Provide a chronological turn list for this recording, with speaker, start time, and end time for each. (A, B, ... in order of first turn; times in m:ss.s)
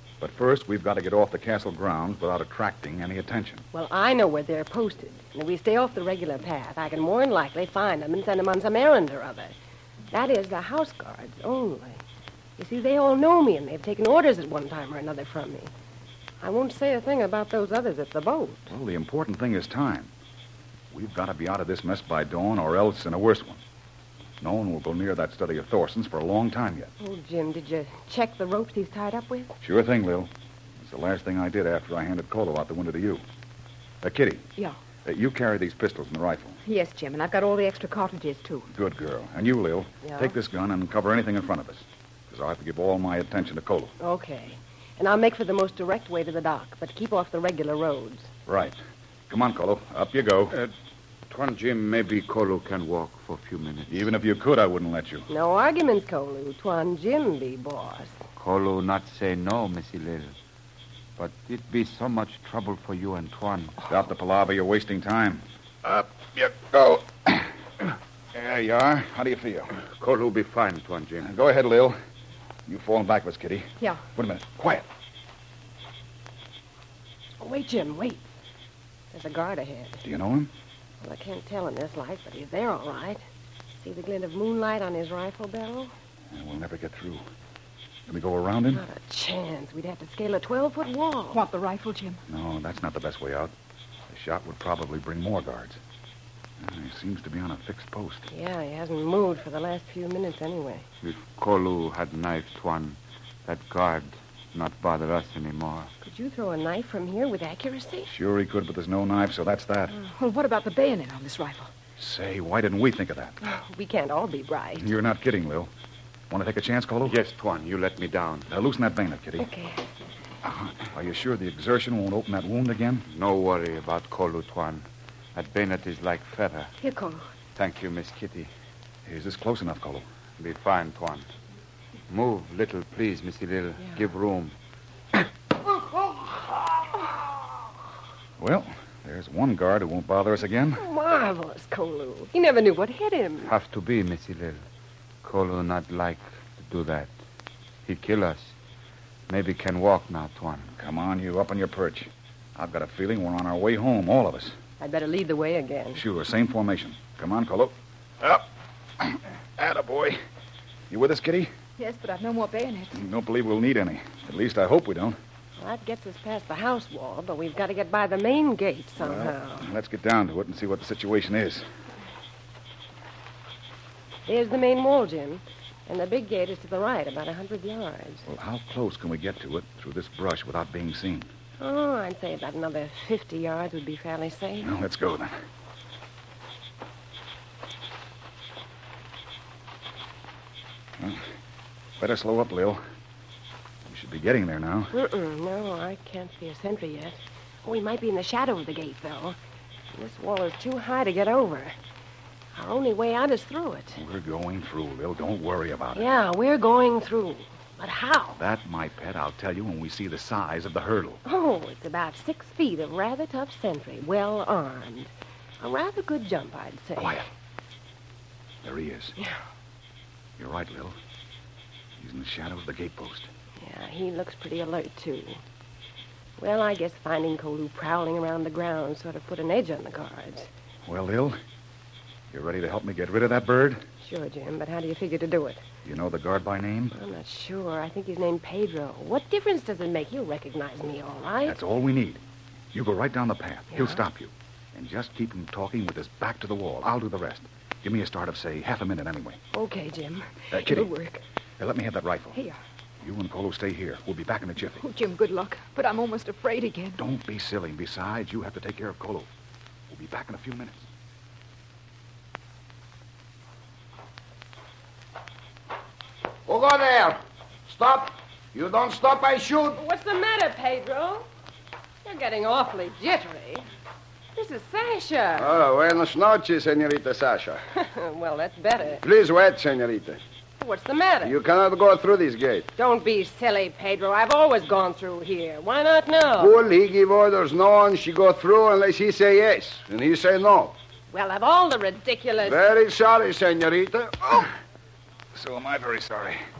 0:00.2-0:03.6 A
0:03.7-0:09.5 B
0:10.1-0:12.0 B
0:12.6-0:15.7 B
0:16.4-0:18.6 B
0:18.7-0:20.1 A
0:20.9-0:23.6 A
0:24.4-0:26.9 A
0:27.0-0:29.5 B
0:29.6-0:30.3 A
0:30.8-0:33.2 A
0:34.0-0:34.4 A
0:35.0-0:36.6 A
0:36.6-0:38.6 C
0:38.7-0:43.9 A
0:40.0-0:40.3 B
0:44.0-0:48.3 B
0:48.4-0:48.8 A
0:49.3-0:50.6 A
0:51.3-0:54.1 D
0:53.9-0:55.3 A
0:55.3-0:58.2 B
0:58.4-1:00.3 D
1:01.2-1:03.8 D
1:03.9-1:09.7 A
1:10.0-1:11.3 D
1:11.2-1:12.0 A
1:12.7-1:14.8 A
1:17.4-1:18.2 B
1:19.1-1:20.0 B
1:20.0-1:20.5 A
1:21.0-1:23.2 B
1:23.8-1:25.9 B
1:26.3-1:27.2 A
1:28.1-1:28.8 A
1:28.7-1:31.4 B
1:31.3-1:32.2 C
1:32.3-1:33.5 A
1:34.1-1:35.8 A
1:36.6-1:38.3 A
1:38.3-1:40.8 B
1:41.0-1:45.9 D
1:46.0-1:48.1 B
1:48.0-1:50.0 A
1:50.1-1:51.7 C
1:52.0-1:53.4 A
1:53.4-1:54.9 B
1:54.8-1:55.7 A
1:56.3-1:57.2 A
1:57.0-1:58.5 D
1:58.5-1:59.5 A
1:59.4-1:59.8 B
2:00.4-2:03.0 A
2:03.1-2:06.7 D
2:06.8-2:07.2 C
2:07.6-2:08.5 D
2:09.0-2:10.0 A
2:10.4-2:11.2 D
2:12.1-2:14.5 D
2:18.4-2:20.8 A
2:20.8-2:23.5 B
2:23.4-2:24.6 D
2:25.2-2:27.1 D
2:27.8-2:28.5 D
2:29.3-2:30.7 D
2:30.7-2:34.5 A
2:34.8-2:36.0 B
2:35.9-2:38.4 A
2:39.0-2:40.2 A
2:40.9-2:41.5 A
2:41.8-2:42.9 C
2:42.9-2:45.2 A
2:45.6-2:49.7 B
2:49.0-2:51.6 A
2:54.2-2:58.3 B
2:58.2-3:01.3 A
3:01.6-3:04.7 B
3:04.6-3:05.3 A
3:12.0-3:12.8 A
3:13.8-3:14.9 A
3:14.9-3:19.4 B
3:19.9-3:21.7 B
3:22.5-3:24.0 B
3:24.0-3:26.1 A
3:25.9-3:28.4 B
3:28.4-3:31.2 A
3:31.2-3:37.2 B
3:37.0-3:37.2 A
3:38.6-3:39.2 A
3:40.4-3:41.0 A
3:42.0-3:43.3 A
3:43.6-3:45.4 B
3:46.4-3:50.5 B
3:50.8-3:51.4 A
3:52.3-3:53.8 A
3:54.0-3:55.6 B
3:55.8-3:56.9 A
3:56.9-4:01.6 B
4:01.4-4:02.2 A
4:02.7-4:09.4 A
4:03.7-4:04.0 B
4:09.5-4:10.7 B
4:10.5-4:10.9 A
4:10.5-4:11.2 C
4:11.6-4:12.4 A
4:13.0-4:14.8 A
4:14.7-4:17.0 C
4:17.0-4:19.3 A
4:19.9-4:20.8 A
4:26.5-4:29.8 E
4:29.8-4:31.2 B
4:32.0-4:33.6 B
4:34.3-4:35.5 B
4:35.3-4:37.6 E
4:37.8-4:39.0 B
4:39.0-4:40.2 E
4:40.6-4:41.4 B
4:41.2-4:42.7 E
4:42.8-4:46.5 B
4:46.3-4:50.7 E
4:51.1-4:52.6 B
4:52.4-4:54.5 E
4:55.3-4:56.4 A